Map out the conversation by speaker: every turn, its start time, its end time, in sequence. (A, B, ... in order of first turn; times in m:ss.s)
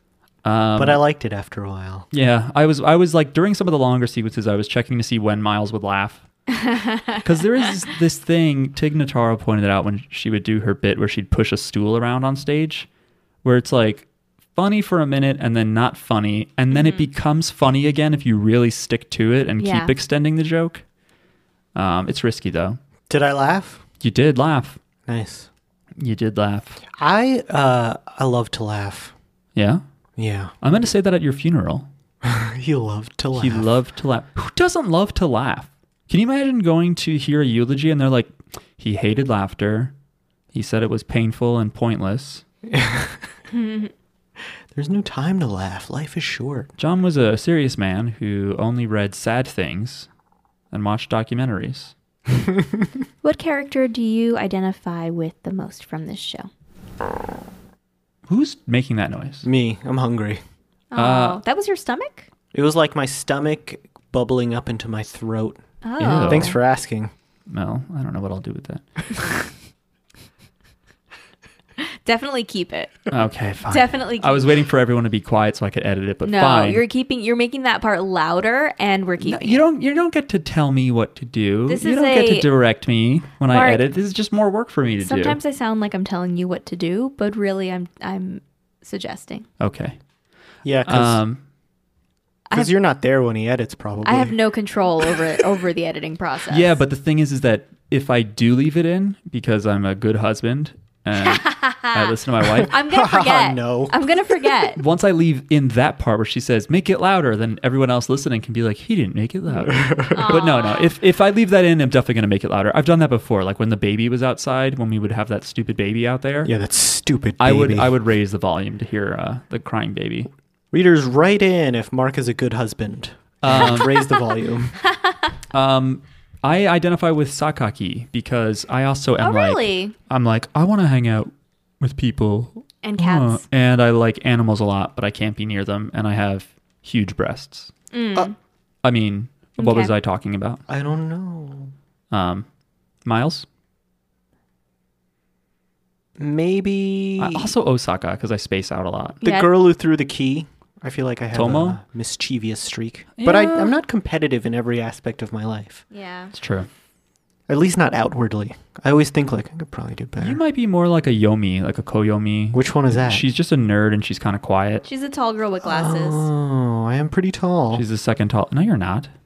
0:00.4-0:01.0 A
0:00.8-0:02.1 B
0:02.1-0:06.2 A
0:06.6-0:07.2 C
0:07.2-0:12.9 A
0:13.4-0:20.8 A
0:16.7-0:17.1 C
0:19.6-0:19.9 C
0:21.8-0:22.8 A
0:23.1-0:23.8 B
0:24.0-0:24.8 A
0:25.1-0:25.5 B
0:26.0-0:26.8 A
0:26.9-0:29.1 B
0:29.6-0:29.8 A
0:30.2-0:30.5 B
0:30.6-0:31.9 A
0:32.2-0:33.7 B
0:33.3-0:39.9 A
0:40.5-0:42.4 A
0:42.7-0:43.3 B
0:43.5-0:43.9 C
0:44.7-0:46.7 B
0:46.8-0:50.1 A
0:50.7-0:51.9 A
0:52.4-0:52.9 B
0:53.2-0:56.5 C
0:58.3-0:59.5 A
0:59.4-1:00.4 B
1:00.9-1:02.3 C
1:01.0-1:01.4 A
1:02.5-1:05.6 B
1:05.8-1:06.6 C
1:06.0-1:06.6 A
1:06.2-1:07.1 B
1:07.5-1:08.8 A
1:11.8-1:13.1 C
1:13.1-1:16.8 A
1:13.7-1:14.5 C
1:16.2-1:19.6 C
1:19.2-1:25.4 A
1:21.7-1:22.5 C
1:23.5-1:23.8 C
1:25.0-1:29.5 C
1:29.6-1:30.0 A
1:30.6-1:31.2 B
1:30.9-1:31.4 A
1:32.5-1:34.4 B
1:34.0-1:36.8 C
1:36.5-1:42.7 A
1:41.2-1:44.8 C
1:42.7-1:44.6 B
1:44.8-1:56.5 A
1:49.6-1:50.4 B
1:50.1-1:50.9 C
1:56.4-1:57.9 B
1:57.4-2:00.3 A
2:00.7-2:04.8 B
2:03.4-2:04.1 A
2:05.5-2:17.7 A
2:09.2-2:09.9 C
2:12.8-2:13.4 C
2:17.9-2:18.3 C
2:18.8-2:20.6 A
2:19.6-2:19.9 C
2:20.7-2:21.7 B
2:22.1-2:22.5 A
2:23.0-2:23.5 A
2:26.2-2:27.5 B
2:27.2-2:29.2 A
2:29.2-2:35.8 B
2:29.2-2:29.5 C
2:31.3-2:31.8 A
2:33.2-2:33.7 A
2:35.9-2:36.3 C
2:36.3-2:36.7 A
2:37.5-2:40.4 B
2:40.2-2:44.8 A
2:42.5-2:43.3 B
2:44.8-2:46.3 C
2:45.6-2:47.8 B
2:47.7-2:49.1 A